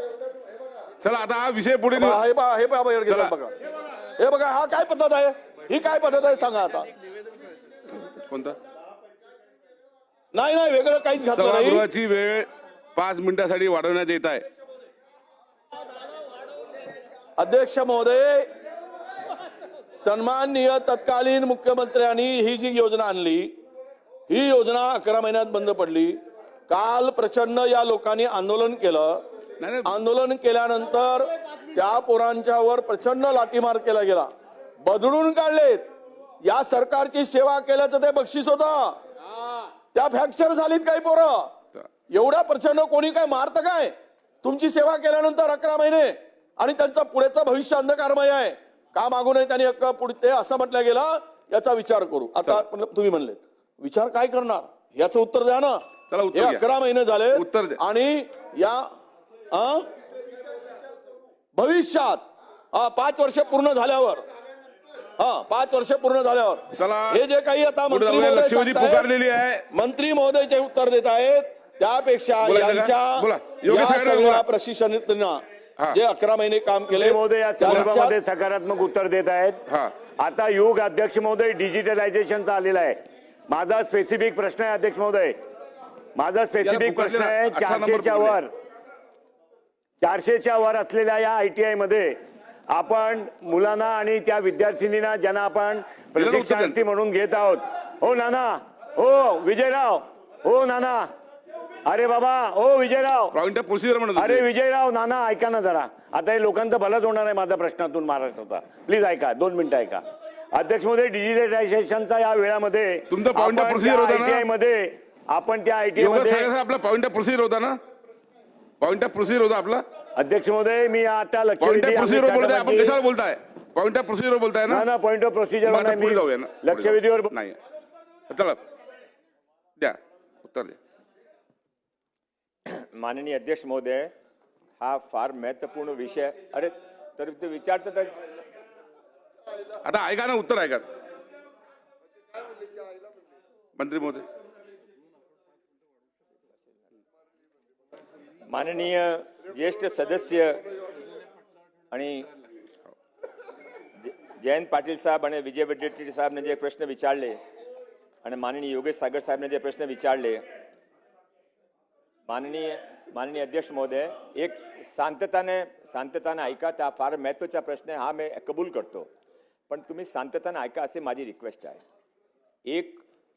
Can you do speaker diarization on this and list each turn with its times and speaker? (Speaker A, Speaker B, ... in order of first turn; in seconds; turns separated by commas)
Speaker A: 1.0-2.2, Speaker B: 1.9-3.5, Speaker A: 3.1-3.3, Speaker B: 4.2-6.9, Speaker A: 8.1-8.6, Speaker B: 10.3-11.8, Speaker A: 11.3-14.4, Speaker B: 17.4-18.4, Speaker B: 19.9-23.5, Speaker B: 24.3-29.2, Speaker A: 29.6-29.9, Speaker B: 29.8-34.3, Speaker B: 34.8-35.9, Speaker B: 36.4-39.0, Speaker B: 39.9-41.5, Speaker B: 42.1-58.9, Speaker A: 56.1-56.6, Speaker A: 57.3-57.8, Speaker B: 59.5-59.8, Speaker B: 61.5-62.2, Speaker B: 62.7-64.2, Speaker B: 65.2-69.1, Speaker A: 66.7-67.2, Speaker A: 67.9-69.7, Speaker B: 69.7-78.2, Speaker A: 72.4-74.4, Speaker C: 76.9-79.6, Speaker C: 80.2-85.4, Speaker C: 86.1-88.5, Speaker A: 86.6-88.4, Speaker C: 90.0-92.2, Speaker C: 92.7-101.1, Speaker A: 96.2-96.8, Speaker C: 101.8-103.3, Speaker A: 103.3-104.4, Speaker C: 104.1-116.5, Speaker A: 113.1-114.4, Speaker A: 116.0-117.8, Speaker A: 118.8-119.8, Speaker C: 120.1-122.9, Speaker A: 121.6-124.8, Speaker C: 124.7-127.3, Speaker A: 125.7-127.6, Speaker A: 128.3-128.6, Speaker A: 129.8-130.8, Speaker D: 132.7-134.1, Speaker D: 134.8-138.1, Speaker A: 139.8-140.8, Speaker A: 143.8-144.2, Speaker D: 148.5-150.6, Speaker D: 151.9-152.3, Speaker D: 154.0-157.4, Speaker D: 158.2-160.4, Speaker D: 162.3-169.1, Speaker D: 169.7-171.8, Speaker D: 172.7-173.0